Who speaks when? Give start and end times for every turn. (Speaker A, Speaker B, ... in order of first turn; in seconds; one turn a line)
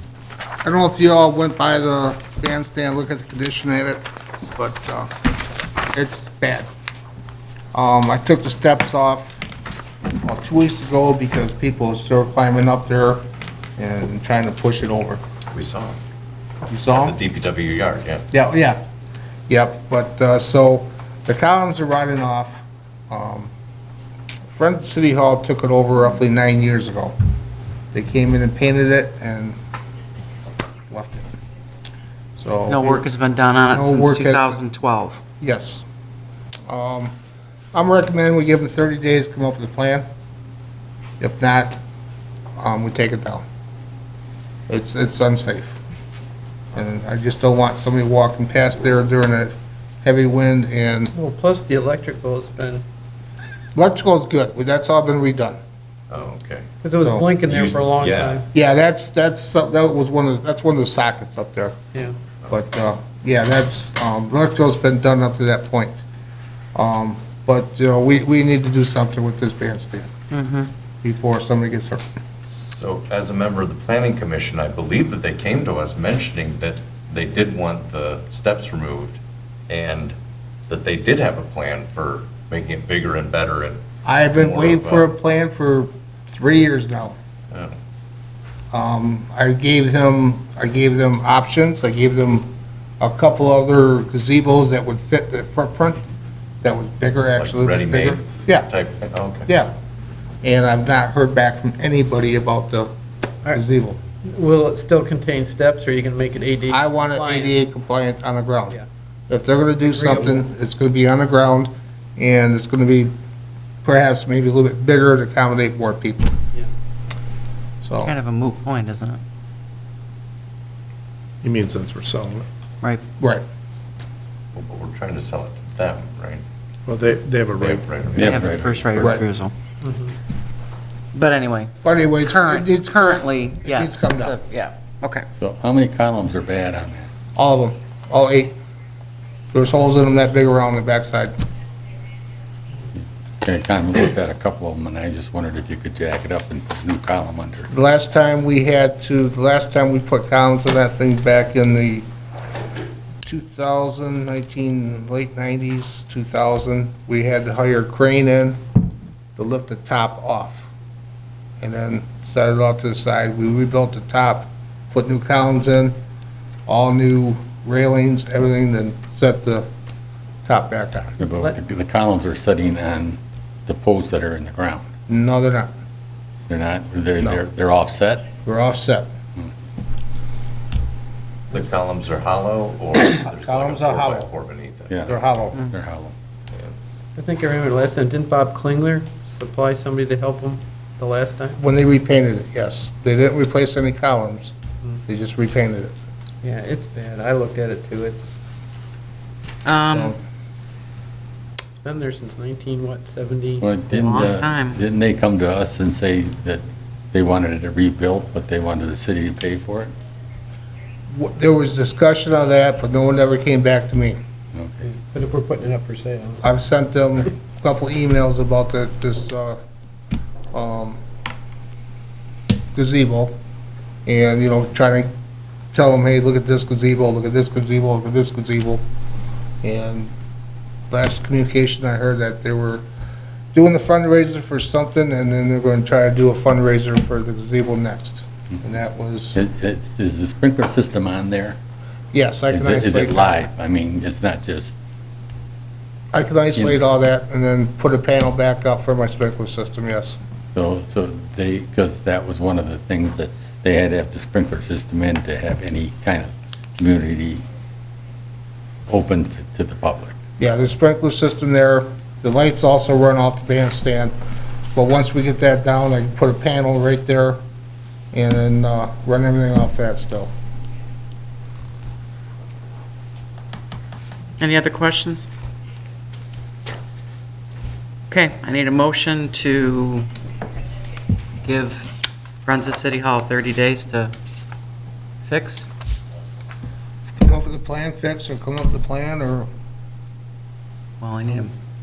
Speaker A: 0.6-4.0
Speaker A: 4.5-5.1
Speaker A: 5.9-6.7
Speaker A: 7.7-9.4
Speaker A: 10.2-13.2
Speaker A: 13.8-15.2
Speaker B: 15.5-16.0
Speaker A: 16.7-17.1
Speaker B: 16.9-18.2
Speaker A: 18.3-18.8
Speaker A: 19.5-23.5
Speaker A: 24.5-27.1
Speaker A: 27.9-29.6
Speaker A: 30.9-31.3
Speaker A: 32.4-33.1
Speaker C: 32.7-35.2
Speaker A: 33.7-34.6
Speaker A: 35.4-35.8
Speaker A: 36.7-37.1
Speaker A: 37.7-40.0
Speaker A: 41.2-41.8
Speaker A: 42.6-43.4
Speaker A: 44.7-45.8
Speaker A: 46.7-51.1
Speaker D: 51.1-52.8
Speaker A: 53.7-55.6
Speaker B: 56.1-56.7
Speaker D: 56.8-58.5
Speaker A: 56.9-57.3
Speaker B: 57.4-58.4
Speaker A: 58.5-61.8
Speaker A: 62.5-66.0
Speaker A: 66.7-70.1
Speaker C: 70.3-70.7
Speaker A: 71.0-72.0
Speaker B: 72.4-80.2
Speaker B: 80.7-83.8
Speaker A: 84.0-87.2
Speaker B: 84.3-85.1
Speaker B: 87.5-87.8
Speaker A: 88.7-92.5
Speaker A: 93.0-96.0
Speaker A: 96.6-98.7
Speaker B: 97.3-99.5
Speaker A: 99.5-99.7
Speaker A: 100.4-102.9
Speaker A: 103.5-104.0
Speaker D: 104.2-107.6
Speaker A: 106.7-108.8
Speaker A: 109.3-113.1
Speaker D: 109.9-110.4
Speaker A: 113.8-116.3
Speaker A: 117.8-118.1
Speaker C: 118.0-119.2
Speaker E: 121.4-122.5
Speaker A: 123.2-123.4
Speaker B: 124.5-126.4
Speaker E: 126.9-128.4
Speaker B: 127.6-129.0
Speaker F: 128.2-129.2
Speaker C: 128.2-129.5
Speaker A: 129.0-129.2
Speaker D: 129.8-130.1
Speaker C: 131.1-135.2
Speaker A: 131.8-133.1
Speaker A: 133.6-134.3
Speaker F: 135.4-137.1
Speaker A: 137.3-138.6
Speaker A: 139.5-141.3
Speaker F: 142.9-147.7
Speaker A: 147.7-152.1
Speaker A: 153.2-158.6
Speaker A: 159.3-160.7
Speaker A: 161.6-165.9
Speaker A: 166.7-169.7
Speaker A: 170.4-171.2
Speaker F: 171.2-174.8
Speaker D: 171.2-171.6
Speaker A: 175.1-175.7
Speaker F: 176.5-178.3
Speaker A: 178.4-179.1
Speaker B: 181.5-184.9
Speaker A: 182.9-184.3
Speaker F: 184.9-186.1
Speaker A: 185.1-185.6
Speaker D: 187.2-191.6
Speaker A: 191.6-194.5
Speaker A: 195.1-195.9
Speaker D: 196.4-198.4
Speaker C: 199.6-200.2
Speaker D: 201.7-203.7
Speaker F: 203.6-209.9
Speaker C: 203.9-204.8
Speaker A: 211.1-214.2
Speaker F: 214.5-214.9
Speaker D: 214.9-216.4
Speaker A: 216.4-219.6
Speaker A: 220.5-221.0
Speaker A: 222.8-223.3
Speaker A: 224.1-225.1
Speaker A: 225.7-228.8
Speaker A: 229.6-230.1
Speaker A: 230.9-232.8
Speaker A: 233.5-239.4
Speaker F: 239.3-241.6
Speaker A: 242.1-243.4
Speaker F: 242.5-244.7
Speaker A: 246.1-250.2
Speaker F: 250.5-257.4
Speaker F: 258.9-260.1
Speaker A: 260.4-264.1
Speaker A: 264.7-267.4
Speaker A: 268.1-270.3
Speaker C: 274.4-275.3
Speaker C: 278.1-280.1
Speaker C: 281.4-281.9
Speaker C: 282.4-284.1
Speaker C: 285.3-285.7
Speaker A: 287.2-289.5
Speaker C: 291.0-291.5